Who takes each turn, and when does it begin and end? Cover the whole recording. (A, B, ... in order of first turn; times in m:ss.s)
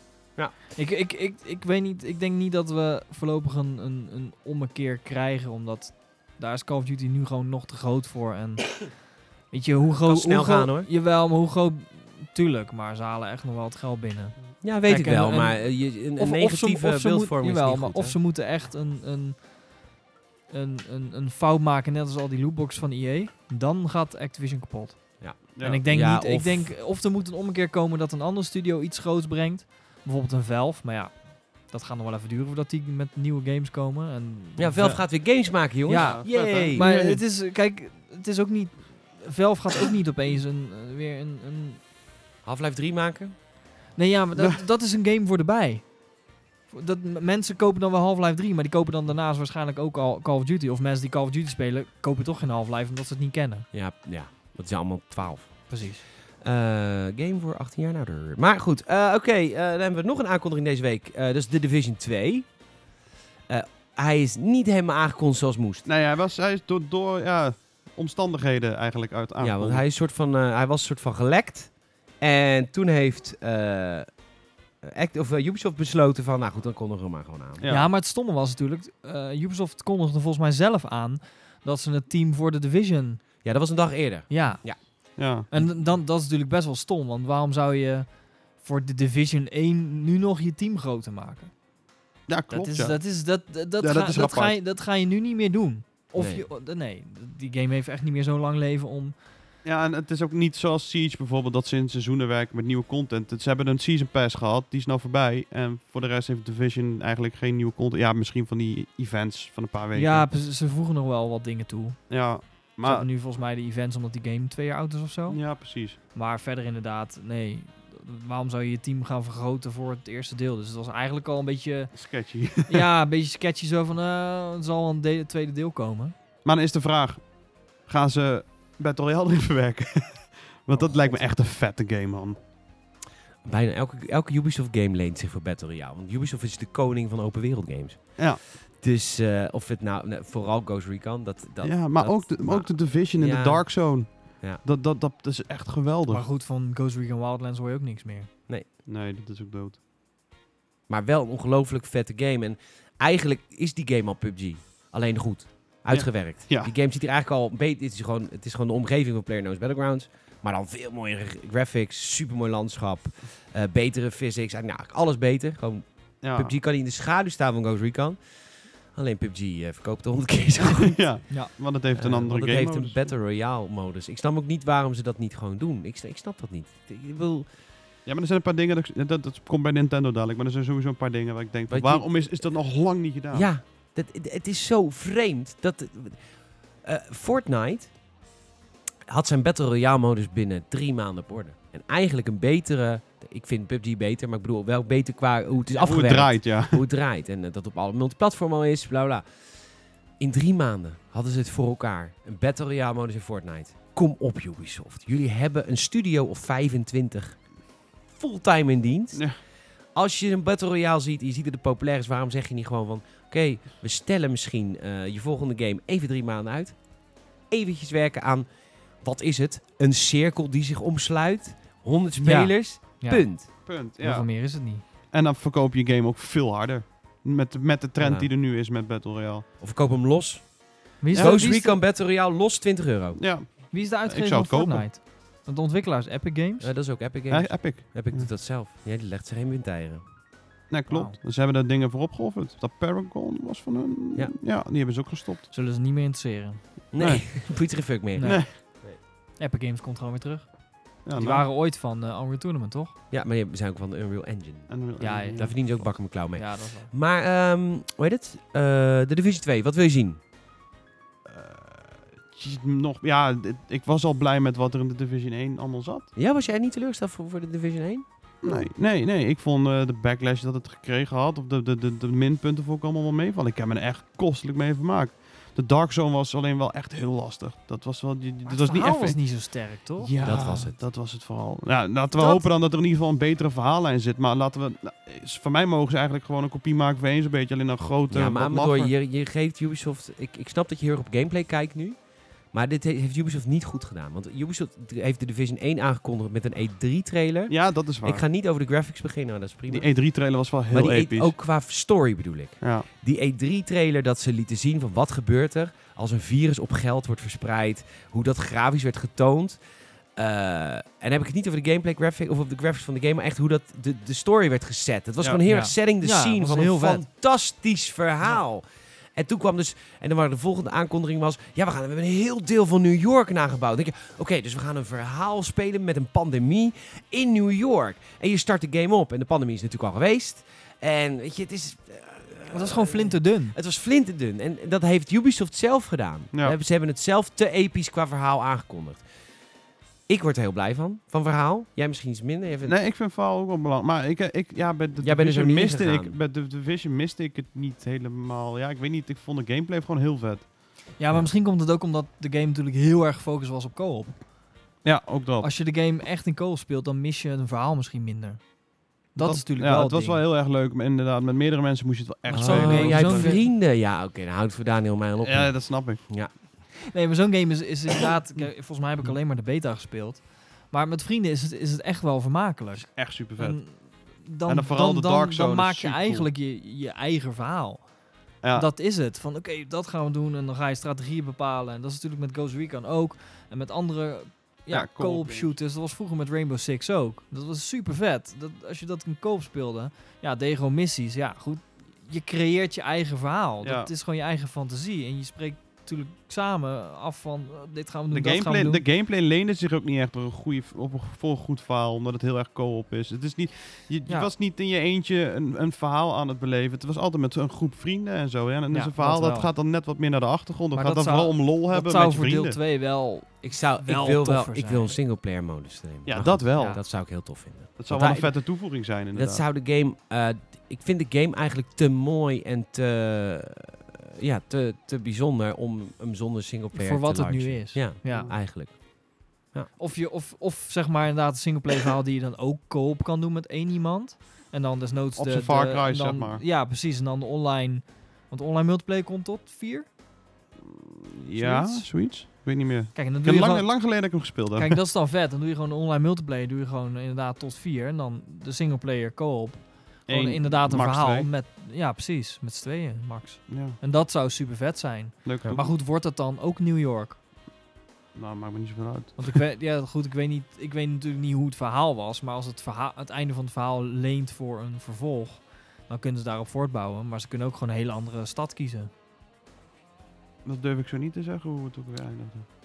0:00.7-0:19.5 A
0:10.0-0:10.9 B
0:14.6-0:18.2 B
0:20.5-0:41.8 A
0:25.2-0:26.7 B
0:25.6-0:25.8 C
0:34.6-0:36.9 B
0:36.0-0:37.2 C
0:42.4-0:43.4 B
0:43.9-0:46.0 A
0:46.7-0:53.7 A
0:53.7-1:02.6 B
0:55.7-0:56.0 A
1:03.5-1:05.9 B
1:05.9-1:09.8 C
1:09.4-1:14.1 B
1:14.8-1:17.6 B
1:17.6-1:17.9 C
1:17.7-1:23.2 A
1:23.4-1:24.8 B
1:24.3-1:31.5 A
1:25.2-1:25.5 C
1:32.3-1:33.0 C
1:32.5-1:39.1 A
1:33.8-1:34.6 C
1:36.2-1:36.4 B
1:39.6-1:50.3 C
1:49.9-1:52.1 A
1:52.1-1:53.1 C
1:52.7-1:55.5 A
1:55.3-1:56.0 C
1:56.1-2:02.0 A
2:01.9-2:02.9 C
2:02.6-2:06.1 A
2:06.4-2:12.4 C
2:13.4-2:24.6 B
2:21.6-2:26.2 C
2:26.1-2:28.3 A
2:28.8-2:29.8 C
2:30.9-2:48.2 B
2:35.9-2:36.7 C
2:46.2-2:46.6 C
2:48.9-2:51.2 B
2:50.6-2:53.0 C
2:51.9-2:57.5 B
2:58.1-3:03.5 C
3:01.7-3:02.1 B
3:03.3-3:06.3 B
3:06.8-3:07.9 B
3:09.1-3:19.2 B
3:15.8-3:16.8 C
3:20.2-3:27.4 B
3:28.1-3:29.3 B
3:29.9-3:36.8 B
3:37.5-3:38.5 B
3:39.0-3:43.5 B
3:42.2-3:43.3 A
3:43.6-3:44.3 C
3:44.0-3:44.8 A
3:45.1-3:49.4 C
3:48.0-3:48.3 B
3:49.6-3:53.2 B
3:51.0-3:51.8 A
3:51.1-3:51.5 C
3:53.2-3:54.9 C
3:53.7-3:56.7 A
3:56.6-4:00.0 B
3:57.3-3:58.3 C
4:00.7-4:05.5 C
4:00.9-4:01.2 A
4:05.5-4:06.7 A
4:06.9-4:09.0 B
4:07.0-4:07.2 C
4:08.2-4:10.5 A
4:08.2-4:08.5 C
4:11.0-4:12.9 A
4:11.0-4:11.4 C
4:13.1-4:20.2 B
4:14.7-4:15.6 C
4:15.0-4:15.6 A
4:16.3-4:16.9 A
4:21.3-4:26.1 C
4:26.2-4:28.0 B
4:28.4-4:39.2 C
4:38.4-4:40.1 A
4:40.0-4:48.9 C
4:40.2-4:40.8 B
4:42.2-4:42.4 A
4:48.1-4:52.0 B
4:52.5-4:59.9 B
4:57.5-4:58.2 C
4:59.7-5:01.4 C
5:00.7-5:09.6 B
5:02.6-5:02.9 C
5:10.2-5:18.6 B
5:15.4-5:17.0 A
5:19.2-5:39.0 B
5:32.5-5:33.6 A
5:40.1-5:42.8 B
5:42.6-5:50.5 C
5:45.0-5:46.1 B
5:51.0-5:54.2 A
5:54.8-5:55.5 C
5:55.4-5:58.4 A
5:59.1-6:00.2 A
5:59.2-6:03.4 C
6:02.3-6:03.4 A
6:02.3-6:06.4 B
6:05.2-6:06.0 C
6:06.9-6:17.9 A
6:12.8-6:13.6 C
6:14.5-6:16.3 C
6:18.4-6:18.7 C
6:18.5-6:38.8 A
6:24.7-6:25.5 C
6:33.6-6:33.9 C
6:38.1-6:52.6 C
6:48.7-6:49.5 A
6:50.7-6:55.0 A
6:53.4-7:08.8 B
6:56.1-6:56.8 C
6:57.8-6:59.4 C
7:06.7-7:08.3 A
7:08.1-7:08.3 C
7:09.4-7:09.7 B
7:09.8-7:19.9 A
7:15.2-7:16.4 C
7:20.7-7:24.8 C
7:21.4-7:21.9 A
7:22.9-7:37.2 A
7:30.1-7:31.3 C
7:33.5-7:33.8 C
7:35.2-7:35.7 C
7:38.1-7:39.3 C
7:39.2-7:48.9 A
7:50.4-7:52.4 C